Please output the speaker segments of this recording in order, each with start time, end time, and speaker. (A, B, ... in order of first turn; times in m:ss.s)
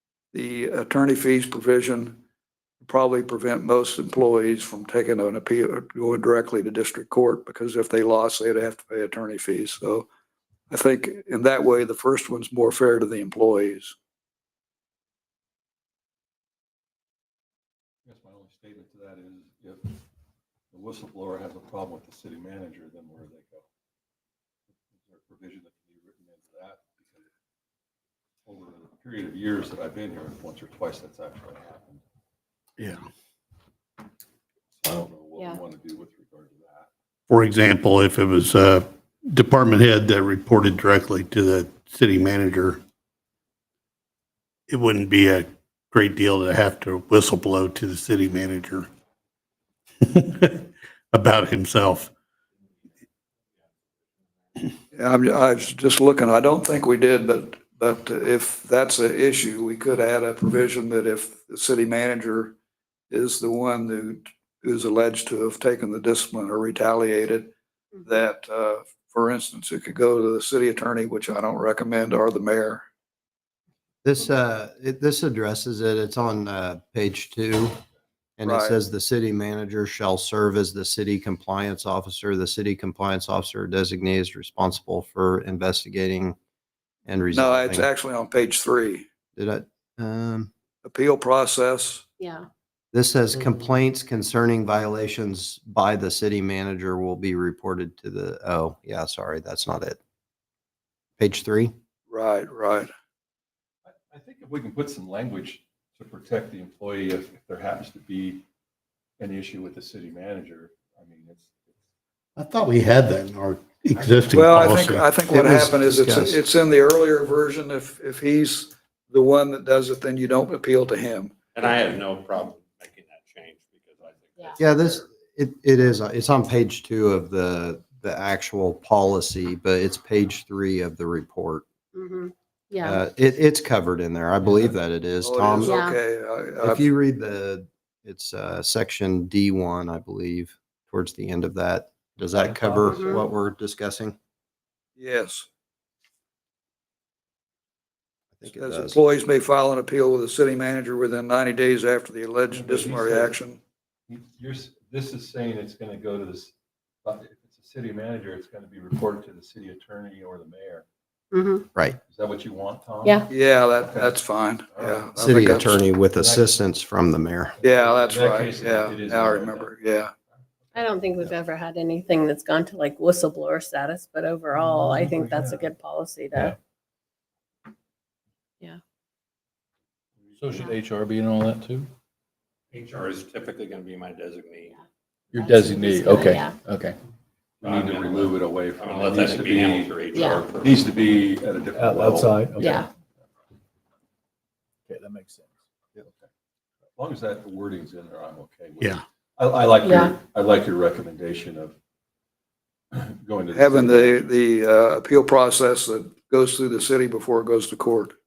0:00.3-0:02.2 A
0:02.8-0:10.1 A
0:10.7-0:14.0 A
0:18.0-0:20.0 B
0:20.7-0:23.7 B
0:24.9-0:27.3 B
0:28.4-0:32.0 B
0:34.8-0:36.9 B
0:37.3-0:42.8 C
0:44.7-0:48.9 C
0:50.0-0:52.1 C
0:54.9-1:02.6 A
1:03.1-1:07.5 A
1:08.0-1:12.8 A
1:14.0-1:17.8 D
1:18.4-1:26.4 D
1:18.4-1:18.8 A
1:27.1-1:27.9 D
1:27.3-1:29.1 A
1:29.4-1:30.5 D
1:30.8-1:32.1 A
1:32.2-1:32.5 E
1:32.9-1:40.0 D
1:41.2-1:41.7 D
1:42.1-1:42.9 A
1:43.8-1:48.5 B
1:49.2-1:51.8 B
1:52.4-1:55.1 C
1:54.3-2:01.4 A
1:55.3-1:56.4 D
2:01.6-2:05.0 F
2:04.6-2:11.6 D
2:11.9-2:13.0 E
2:12.8-2:15.8 D
2:14.4-2:14.7 B
2:15.2-2:16.9 A
2:15.6-2:16.0 E
2:16.6-2:24.2 D
2:22.4-2:23.1 B
2:22.8-2:23.2 E
2:25.0-2:25.5 A
2:28.4-2:29.0 D
2:28.5-2:33.6 A
2:32.5-2:33.4 B
2:34.1-2:40.9 B
2:41.3-2:41.7 E
2:42.0-2:43.3 B
2:43.3-2:45.8 A
2:43.9-2:46.6 B
2:45.2-2:47.6 D
2:47.6-2:49.8 B
2:47.6-2:50.1 A
2:50.3-2:51.3 B
2:50.7-2:56.6 E
2:54.5-2:55.7 B
3:00.4-3:01.9 G
3:00.5-3:00.8 E
3:02.7-3:04.7 F
3:05.3-3:07.0 G
3:05.4-3:06.6 E
3:07.6-3:12.8 B
3:07.6-3:10.8 F
3:10.1-3:10.5 E
3:11.8-3:12.8 G
3:12.6-3:12.9 E
3:14.9-3:15.5 G
3:17.0-3:21.8 B
3:19.8-3:20.2 E
3:22.9-3:24.4 B
3:23.5-3:28.2 A